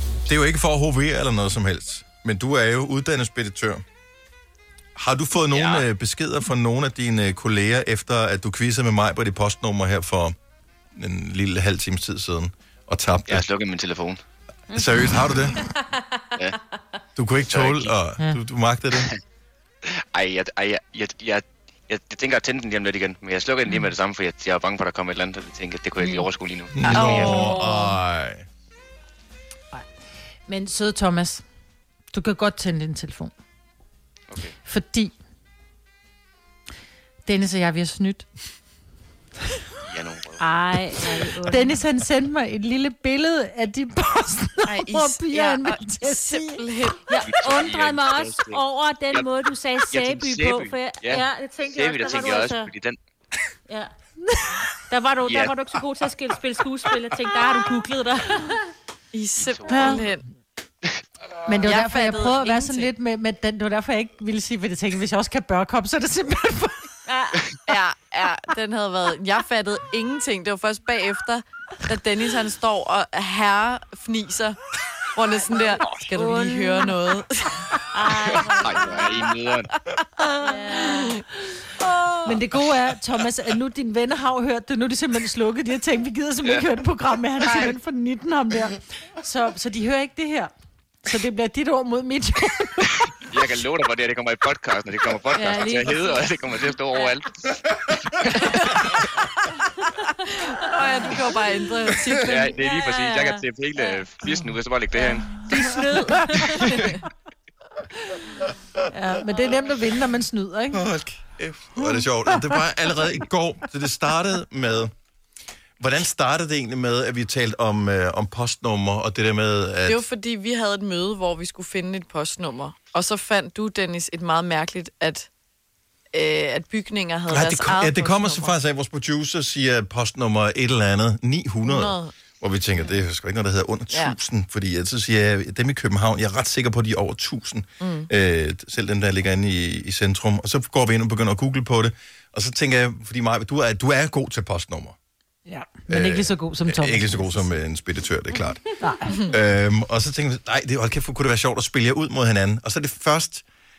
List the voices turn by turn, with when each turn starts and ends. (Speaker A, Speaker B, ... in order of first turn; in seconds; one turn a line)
Speaker A: 0.3-3.8
Speaker A: 5.0-10.3
Speaker B: 5.5-5.9
Speaker A: 11.0-13.5
Speaker B: 13.3-14.2
Speaker C: 14.7-16.4
Speaker A: 14.7-15.7
Speaker A: 17.2-19.1
Speaker B: 17.5-18.0
Speaker B: 19.9-27.5
Speaker A: 26.7-28.5
Speaker D: 26.9-27.9
Speaker E: 30.5-31.4
Speaker E: 32.1-33.3
Speaker B: 34.3-34.5
Speaker E: 34.6-35.2
Speaker E: 37.2-38.3
Speaker B: 39.8-40.8
Speaker C: 40.4-41.8
Speaker E: 41.4-46.6
Speaker D: 44.6-47.2
Speaker C: 47.1-52.7
Speaker B: 47.2-49.3
Speaker B: 49.9-53.0
Speaker C: 54.9-58.7
Speaker B: 55.3-55.7
Speaker D: 59.1-60.2
Speaker B: 59.4-60.1
Speaker E: 59.7-60.0
Speaker E: 61.5-66.9
Speaker D: 61.6-62.9
Speaker C: 67.1-67.6
Speaker D: 67.7-78.4
Speaker C: 76.1-77.0
Speaker C: 77.9-79.3
Speaker B: 78.1-79.7
Speaker C: 80.3-81.2
Speaker D: 80.6-81.2
Speaker D: 81.7-82.4
Speaker E: 82.2-93.1
Speaker D: 87.4-87.8
Speaker B: 93.1-98.8
Speaker D: 95.3-96.0
Speaker C: 95.7-96.3
Speaker D: 98.4-98.7
Speaker D: 100.5-102.6
Speaker B: 102.2-105.5
Speaker C: 102.5-104.0
Speaker C: 104.9-106.8
Speaker D: 106.7-107.0
Speaker E: 108.9-110.9
Speaker A: 110.7-114.9
Speaker E: 111.8-112.6
Speaker A: 115.8-120.0
Speaker D: 119.9-125.3
Speaker D: 126.1-128.5
Speaker A: 127.3-145.0
Speaker D: 131.6-132.1
Speaker D: 133.9-134.2
Speaker D: 137.8-138.1
Speaker E: 145.5-147.5
Speaker A: 145.9-153.4
Speaker E: 148.8-149.2